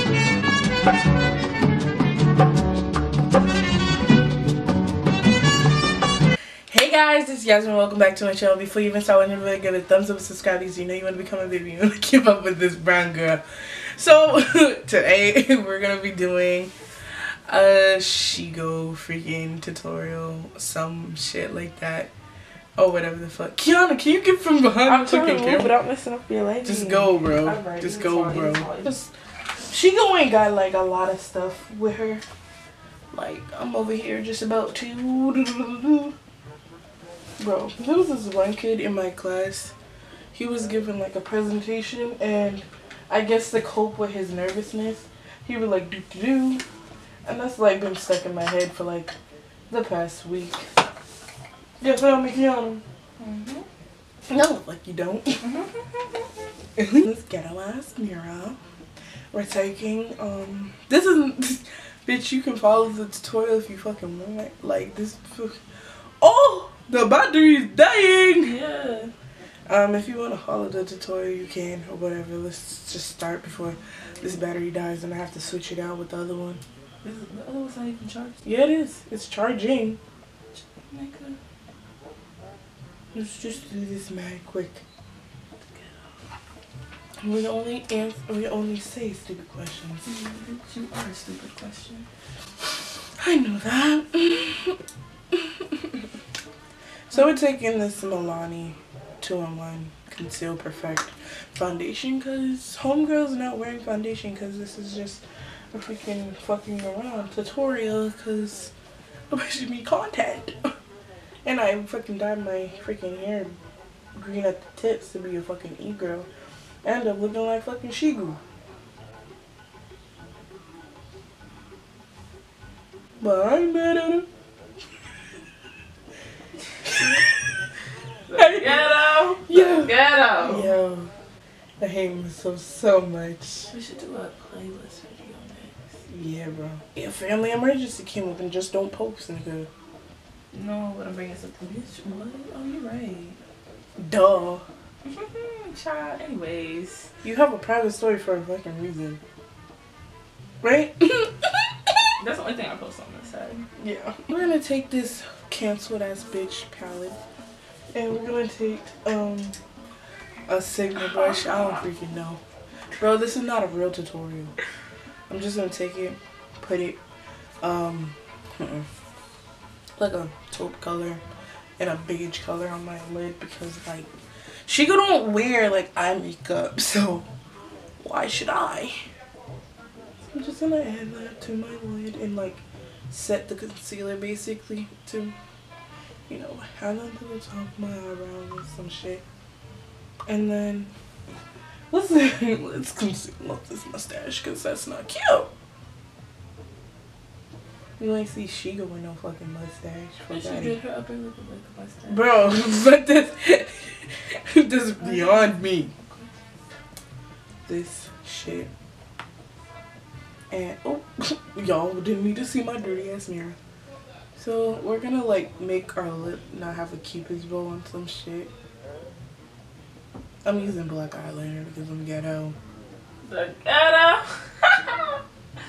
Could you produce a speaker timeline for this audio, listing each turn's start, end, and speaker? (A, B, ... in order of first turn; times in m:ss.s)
0:06.7-0:13.4 A
0:13.9-0:22.1 A
0:22.8-0:25.7 A
0:24.8-0:28.9 B
0:26.6-0:29.1 A
0:29.7-0:32.2 A
0:33.1-0:36.1 A
0:37.4-0:39.7 A
0:40.3-0:46.6 A
0:47.2-0:49.1 A
0:49.7-0:50.7 A
0:51.8-0:52.8 A
0:53.2-0:53.6 B
0:54.3-0:55.5 A
0:55.4-0:56.3 B
0:56.8-0:58.6 A
0:59.3-1:05.6 A
1:06.2-1:08.5 A
1:08.4-1:09.1 B
1:09.7-1:16.6 A
1:17.0-1:18.4 B
1:18.4-1:20.0 A
1:20.5-1:21.4 B
1:23.1-1:24.8 A
1:27.2-1:30.1 A
1:30.0-1:32.0 B
1:33.2-1:34.8 A
1:35.3-1:36.0 A
1:37.1-1:48.7 A
1:49.3-1:50.7 A
1:51.4-1:53.6 A
1:54.1-1:56.3 A
1:56.8-1:58.4 A
2:03.2-2:04.3 A
2:08.3-2:10.7 B
2:08.4-2:08.7 A
2:09.4-2:11.1 A
2:11.8-2:13.7 A
2:13.7-2:15.7 B
2:16.1-2:19.7 A
2:20.5-2:23.4 B
2:24.0-2:24.6 A
2:25.0-2:27.1 B
2:27.2-2:29.2 A
2:30.6-2:32.1 A
2:32.2-2:33.6 B
2:33.8-2:37.2 A
2:37.9-2:39.6 A
2:40.5-2:42.4 A
2:40.9-2:41.8 B
2:43.0-2:44.5 A
2:45.3-2:47.0 A
2:47.6-2:48.9 A
2:50.0-2:51.2 A
2:51.8-2:54.1 A
2:54.6-2:57.3 A
2:58.0-2:59.0 A
3:00.3-3:05.3 A
3:06.3-3:09.2 A
3:10.3-3:10.9 A
3:11.9-3:15.5 A
3:18.0-3:20.8 A
3:20.3-3:22.7 B
3:22.1-3:25.9 A
3:25.0-3:26.3 B
3:27.6-3:28.7 A
3:30.5-3:33.6 A
3:34.4-3:38.5 A
3:40.4-3:42.6 A
3:43.2-3:45.2 B